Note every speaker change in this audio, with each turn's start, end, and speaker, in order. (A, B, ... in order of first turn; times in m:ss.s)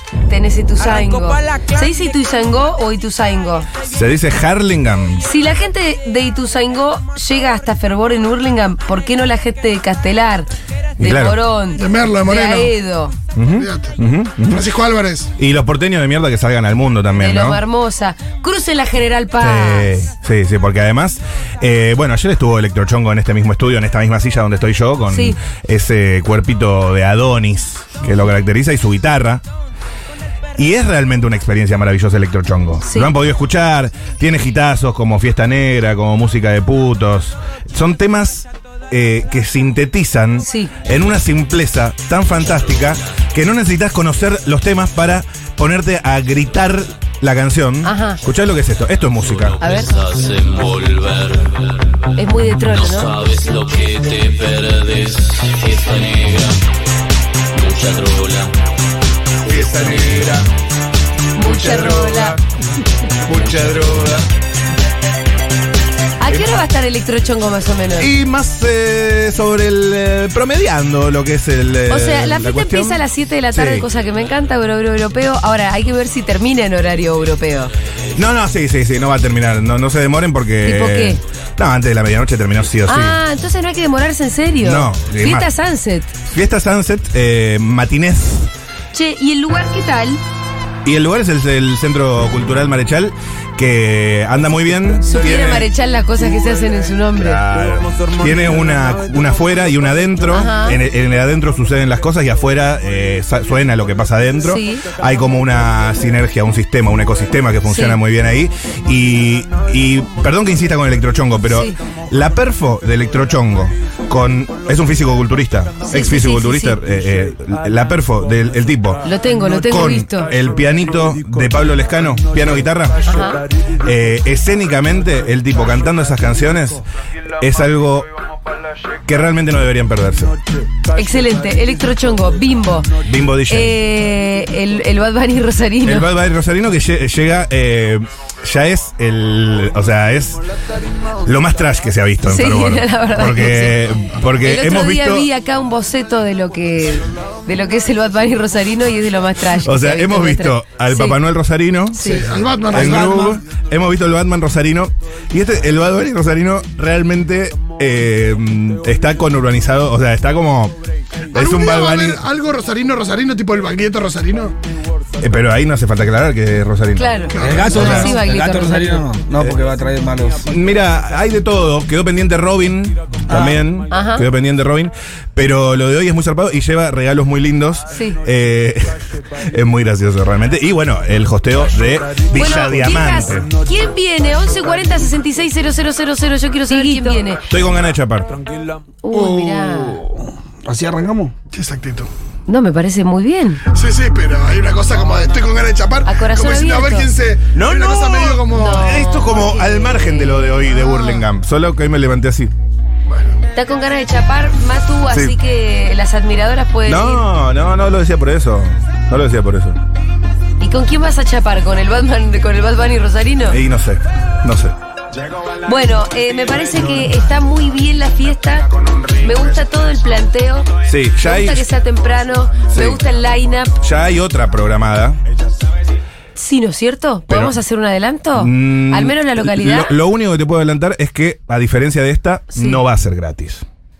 0:00.3-0:03.7 A
0:03.8-0:05.2 B
0:05.2-0:13.2 A
0:11.0-0:11.4 B
0:11.8-0:12.7 C
0:13.3-0:14.6 B
0:13.5-0:14.0 C
0:14.5-0:15.3 C
0:15.4-0:17.6 B
0:17.2-0:20.0 A
0:19.4-0:29.4 B
0:25.1-0:25.4 A
0:30.6-0:49.6 B
0:32.8-0:33.1 A
0:40.4-0:40.7 A
0:47.8-0:48.2 A
0:49.6-0:49.9 A
0:49.6-0:52.0 D
0:52.2-0:53.2 A
0:52.6-0:56.6 D
0:57.6-0:58.5 D
0:59.5-1:00.3 B
0:59.8-1:00.4 D
1:01.3-1:02.4 A
1:01.5-1:02.1 B
1:03.3-1:04.1 B
1:03.5-1:04.2 D
1:06.2-1:08.1 A
1:08.0-1:13.8 B
1:11.9-1:17.7 A
1:18.1-1:23.2 B
1:20.6-1:21.2 A
1:22.9-1:26.1 A
1:24.6-1:25.5 B
1:26.3-1:28.5 B
1:28.9-1:30.2 A
1:30.8-1:35.7 B
1:35.0-1:37.4 A
1:37.2-1:59.0 B
1:40.3-1:40.8 A
1:44.4-1:44.9 A
1:47.7-1:48.0 A
1:51.5-1:51.8 A
1:55.9-1:56.8 A
1:59.0-2:00.3 A
1:59.6-2:03.1 B
2:03.0-2:03.4 A
2:03.8-2:06.8 B
2:07.4-2:08.1 B
2:09.0-2:10.3 B
2:10.9-2:12.9 A
2:13.0-2:13.8 B
2:13.5-2:16.1 A
2:15.8-2:20.4 B
2:21.2-2:25.3 B
2:22.3-2:23.8 A
2:24.4-2:31.2 A
2:29.6-2:32.2 B
2:31.9-2:32.2 A
2:32.0-2:33.3 C
2:32.7-2:33.4 E
2:32.7-2:40.8 B
2:41.3-2:42.2 B
2:41.3-2:44.5 C
2:45.2-2:48.1 B
2:47.0-2:49.0 A
2:47.3-2:47.7 C
2:47.4-2:50.5 E
2:50.4-3:03.5 B
2:53.3-2:53.7 E
2:53.9-2:54.2 A
2:57.9-2:58.2 A
3:02.3-3:07.4 A
3:07.5-3:08.3 B
3:09.0-3:10.0 A
3:09.1-3:11.3 E
3:11.5-3:12.1 C
3:12.5-3:13.6 A
3:13.7-3:18.9 C
3:16.0-3:17.1 A
3:17.5-3:22.5 B
3:18.4-3:21.2 A
3:23.1-3:23.4 C
3:23.5-3:27.3 A
3:25.1-3:25.3 B
3:26.8-3:29.8 B
3:30.6-3:33.6 A
3:33.5-3:34.7 B
3:35.6-3:40.7 A
3:40.8-3:41.7 B
3:41.2-3:43.8 A
3:42.7-3:43.0 B
3:43.8-3:45.2 B
3:46.4-3:49.9 A
3:47.3-3:47.6 B
3:48.3-3:53.6 B
3:52.5-3:52.8 A